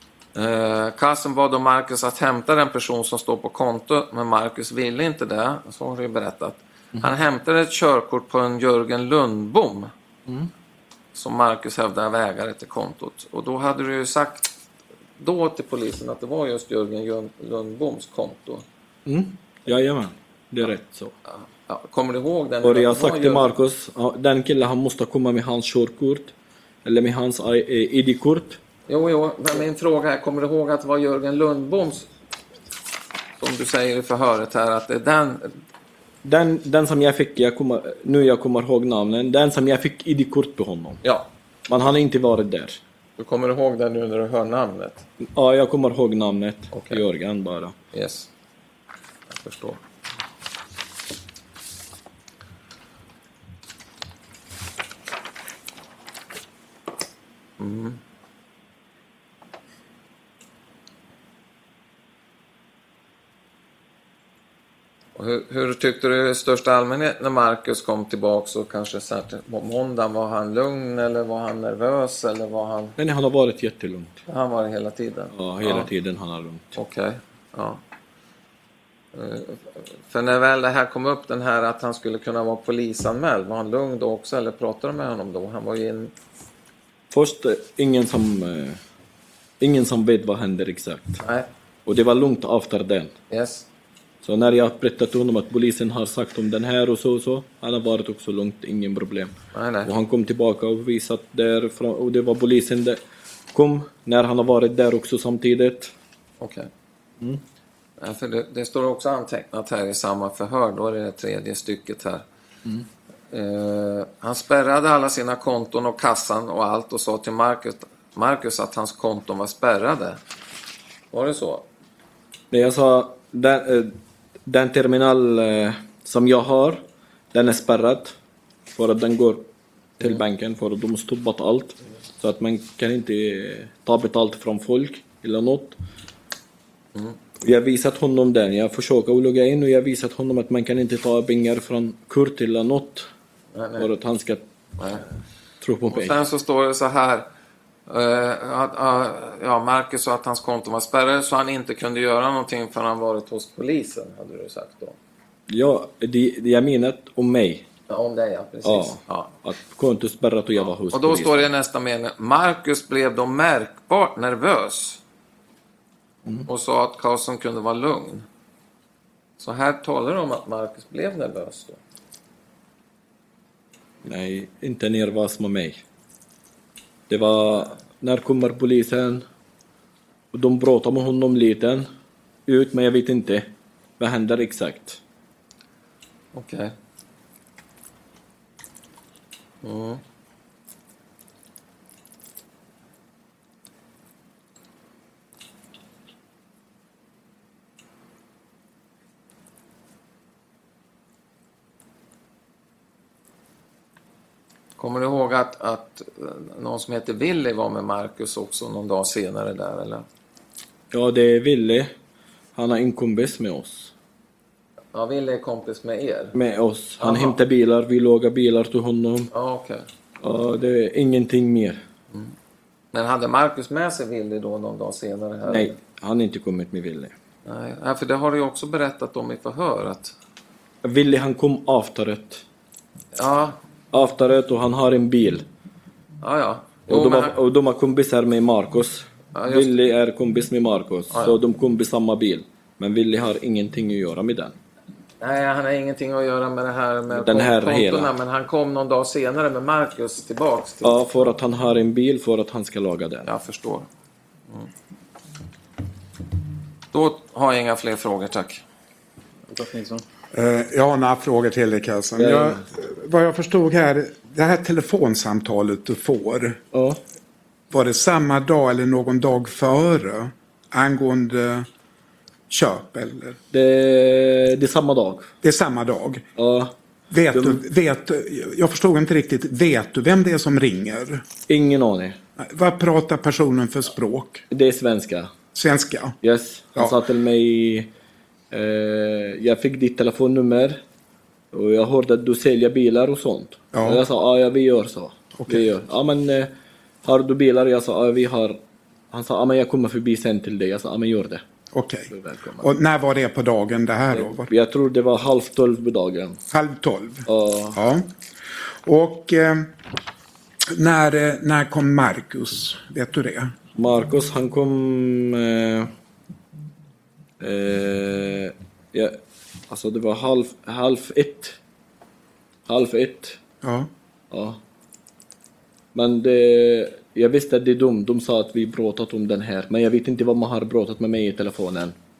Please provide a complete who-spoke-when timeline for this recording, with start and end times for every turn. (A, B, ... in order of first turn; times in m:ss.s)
0:00.4-0:09.9 A
0:11.2-0:14.5 A
0:15.2-0:18.6 A
0:19.1-0:21.2 B
0:21.3-0:23.5 A
0:22.6-0:26.3 B
0:26.8-0:28.6 B
0:28.9-0:32.1 A
0:33.4-0:35.6 A
0:36.2-0:41.0 B
0:41.0-0:41.3 A
0:41.7-0:42.8 B
0:43.2-0:45.0 A
0:45.3-0:47.8 B
0:46.7-0:47.0 A
0:47.9-0:48.3 A
0:49.3-0:49.8 A
0:57.6-0:58.0 A
1:05.2-1:13.0 A
1:13.0-1:14.2 B
1:14.3-1:15.9 A
1:15.3-1:16.7 B
1:16.7-1:17.8 A
1:19.1-1:26.1 A
1:27.1-1:28.8 B
1:29.6-1:31.2 B
1:31.2-1:31.5 A
1:31.9-1:33.1 B
1:33.3-1:33.7 A
1:34.2-1:39.3 B
1:39.5-1:39.9 A
1:39.8-1:43.0 B
1:43.5-1:45.9 B
1:46.4-1:46.7 A
1:48.0-1:52.2 A
1:53.3-2:00.2 A
2:01.1-2:01.7 A
2:02.5-2:04.0 B
2:04.5-2:08.2 B
2:08.7-2:09.5 B
2:10.0-2:15.8 B
2:17.4-2:23.1 B
2:23.5-2:23.9 A
2:23.8-2:24.4 B
2:24.8-2:25.0 A
2:25.6-2:26.2 B
2:25.9-2:27.3 A
2:27.9-2:35.0 A
2:35.5-2:37.7 B
2:37.9-2:39.3 A
2:38.6-2:41.5 B
2:40.9-2:45.0 A
2:46.5-2:48.3 A
2:49.4-2:51.8 A
2:54.0-2:55.8 B
2:57.1-2:59.2 B
3:00.3-3:01.9 B
3:02.5-3:05.0 B
3:06.3-3:06.7 A
3:09.6-3:10.0 A
3:24.8-3:30.0 A
3:30.9-3:31.9 B
3:32.6-3:33.9 B
3:34.9-3:36.4 A
3:36.3-3:39.3 B
3:37.0-3:37.4 A
3:39.3-3:39.9 A
3:40.2-3:41.8 B
3:42.9-3:45.8 A
3:45.5-3:47.1 B
3:47.4-3:50.2 A
3:50.8-3:52.4 B
3:53.2-3:53.6 A
3:53.9-3:55.4 B
3:56.2-3:57.4 A
3:56.9-4:04.6 B
3:59.3-3:59.9 A
4:01.1-4:01.4 A
4:05.2-4:11.0 A
4:07.1-4:08.2 B
4:10.8-4:13.3 B
4:13.2-4:13.9 A
4:16.9-4:18.6 A
4:20.3-4:26.6 C
4:22.2-4:22.6 B
4:26.7-4:27.0 B
4:27.7-4:31.7 C
4:32.5-4:33.4 C
4:33.5-4:35.3 B
4:35.4-4:36.3 C
4:36.4-4:36.7 B
4:37.1-4:41.2 C
4:37.3-4:37.6 B
4:41.5-4:42.2 B
4:42.4-4:44.4 C
4:44.5-4:45.4 B
4:45.5-4:46.2 C
4:46.2-4:47.9 B
4:48.5-4:50.8 B
4:51.5-4:56.5 B
4:53.7-4:54.0 C
4:55.4-4:55.6 C
4:57.0-4:58.6 B
4:59.1-5:01.4 B
5:01.7-5:04.5 C
5:02.1-5:02.7 B
5:04.1-5:06.4 B
5:06.5-5:08.1 C
5:07.3-5:07.8 B
5:08.8-5:09.7 C
5:10.7-5:13.5 C
5:13.8-5:15.9 B
5:17.4-5:21.6 B
5:22.7-5:23.4 B
5:23.6-5:23.9 C
5:24.3-5:24.6 B
5:25.9-5:32.0 B